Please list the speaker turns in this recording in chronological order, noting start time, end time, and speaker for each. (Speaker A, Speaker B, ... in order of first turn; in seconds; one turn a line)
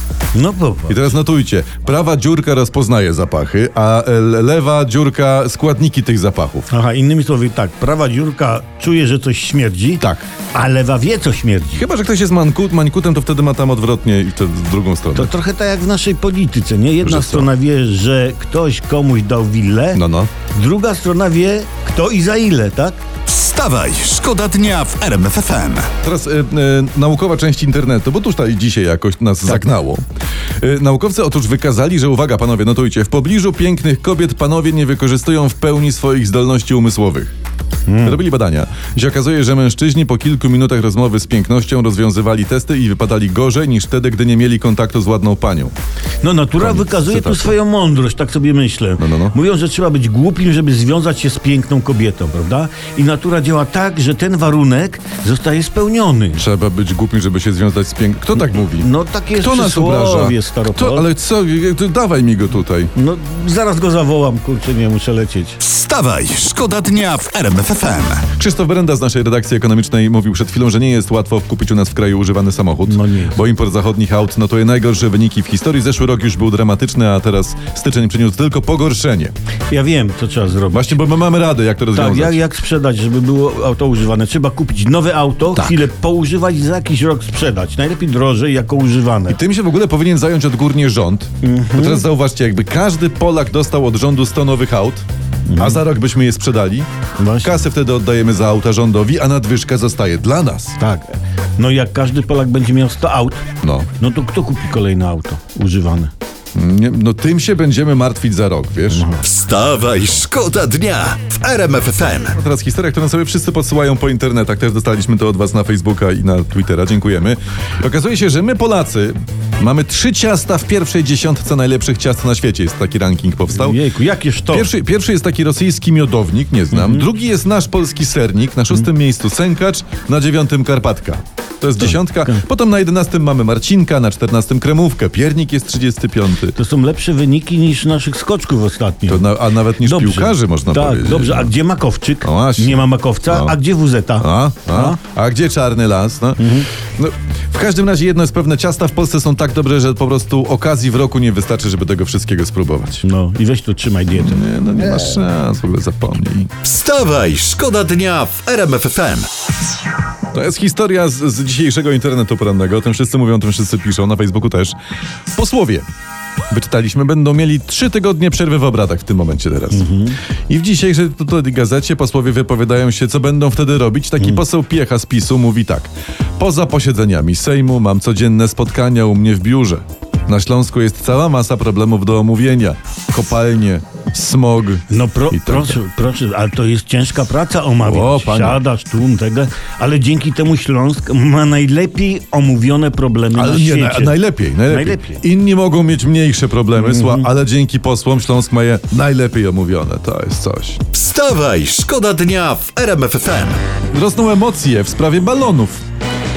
Speaker A: 0.3-1.1
Speaker B: 0.9-6.7
Speaker A: 6.7-11.8
Speaker B: 10.0-10.3
Speaker B: 11.8-15.3
Speaker A: 15.2-23.0
Speaker B: 17.0-17.5
Speaker B: 19.9-20.3
Speaker C: 23.3-25.9
Speaker B: 26.0-30.0
Speaker B: 30.6-37.3
Speaker A: 37.9-38.2
Speaker B: 38.0-45.7
Speaker A: 46.2-56.4
Speaker B: 46.6-47.6
Speaker B: 49.0-49.4
Speaker B: 56.4-62.9
Speaker A: 58.5-61.1
Speaker A: 63.0-65.6
Speaker C: 65.6-68.3
Speaker B: 68.3-79.3
Speaker A: 72.8-73.4
Speaker A: 79.7-81.0
Speaker B: 80.7-82.4
Speaker A: 81.9-89.4
Speaker B: 89.3-95.1
Speaker A: 91.4-92.0
Speaker A: 95.5-95.8
Speaker B: 95.6-96.9
Speaker A: 97.2-97.6
Speaker B: 97.4-100.8
Speaker A: 100.8-103.5
Speaker B: 103.6-103.9
Speaker A: 104.0-106.1
Speaker B: 106.5-109.1
Speaker A: 108.9-109.2
Speaker C: 109.2-112.4
Speaker B: 112.3-123.8
Speaker A: 123.5-124.7
Speaker B: 124.5-136.6
Speaker A: 126.7-127.0
Speaker A: 131.8-132.4
Speaker A: 136.6-145.0
Speaker B: 139.1-141.5
Speaker B: 142.2-143.6
Speaker B: 144.2-146.4
Speaker A: 146.4-146.7
Speaker B: 147.0-153.0
Speaker A: 153.0-154.4
Speaker B: 154.1-156.5
Speaker C: 156.6-159.3
Speaker B: 160.3-164.8
Speaker B: 165.3-165.9
Speaker B: 166.5-169.9
Speaker A: 169.7-170.2
Speaker B: 170.5-185.8
Speaker A: 184.9-195.2
Speaker B: 187.8-188.6
Speaker B: 193.3-200.8
Speaker A: 196.8-197.3
Speaker C: 200.9-203.6
Speaker B: 203.9-205.8